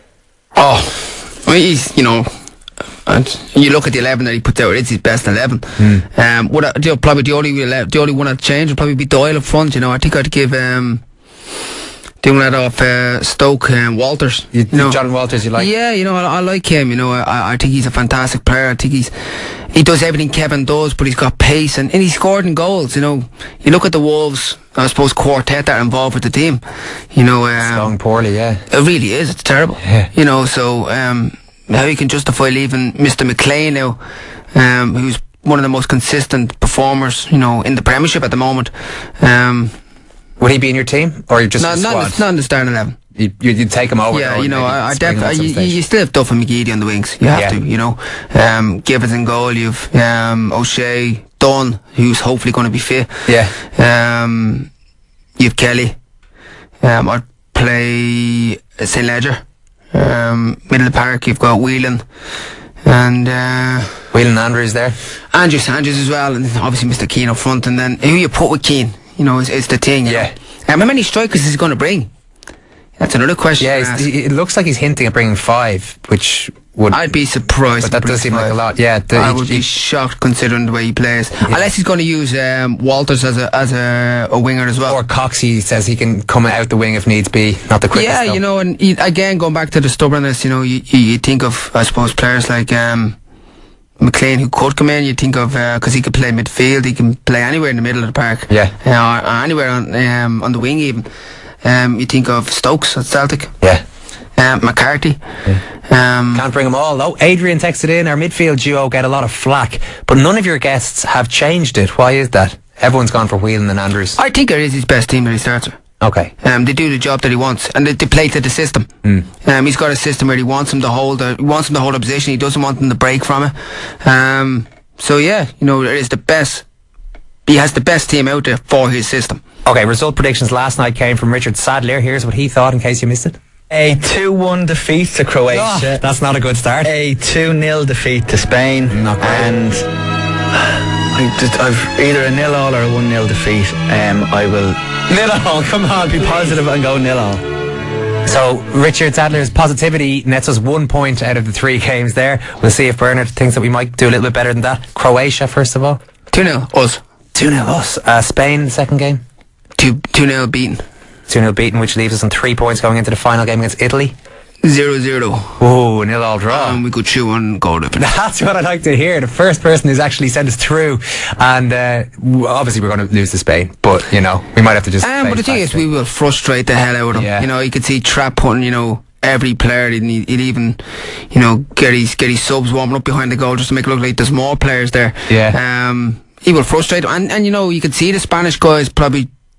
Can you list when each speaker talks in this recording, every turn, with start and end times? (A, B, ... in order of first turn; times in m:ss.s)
0:00.6-0:02.3 A
0:03.0-0:11.0 A
0:05.8-0:06.0 B
0:12.2-0:15.0 A
0:14.5-0:15.7 B
0:15.5-0:19.1 A
0:19.7-0:26.6 A
0:27.1-0:27.9 A
0:27.6-0:28.6 B
0:28.7-0:34.0 A
0:34.5-0:39.7 A
0:40.4-0:42.2 B
0:41.6-0:43.0 A
0:43.2-0:45.8 B
0:44.1-0:53.1 A
0:53.3-0:53.5 B
0:53.7-0:54.7 A
0:55.4-0:56.0 A
0:56.8-0:59.4 A
0:59.9-1:02.0 A
1:02.8-1:03.9 A
1:04.1-1:05.0 B
1:05.3-1:12.1 A
1:10.0-1:10.3 B
1:13.0-1:14.1 A
1:13.6-1:17.0 B
1:16.9-1:18.6 A
1:17.8-1:19.6 B
1:19.1-1:25.0 A
1:24.8-1:28.4 B
1:27.9-1:33.2 A
1:34.0-1:41.0 A
1:41.6-1:43.5 A
1:44.4-1:45.2 A
1:45.9-1:46.4 A
1:46.3-1:54.2 B
1:54.2-1:55.8 A
1:56.0-1:56.3 B
1:56.4-1:58.9 A
1:59.4-2:06.6 A
2:07.4-2:09.4 A
2:09.6-2:13.4 B
2:13.7-2:16.0 C
2:15.5-2:16.9 B
2:16.8-2:19.8 C
2:18.9-2:19.5 B
2:21.1-2:24.8 C
2:25.1-2:26.6 B
2:26.1-2:27.4 C
2:28.2-2:36.0 B
2:36.3-2:37.0 A
2:37.3-2:39.2 B
2:39.8-2:40.8 A
2:41.3-2:44.1 B
2:44.6-2:45.6 A
2:45.6-2:46.8 B
2:46.5-2:48.0 A
2:48.0-2:55.8 B
2:55.0-3:00.8 A
2:57.1-2:57.4 B
3:01.3-3:09.3 A
3:05.3-3:05.6 B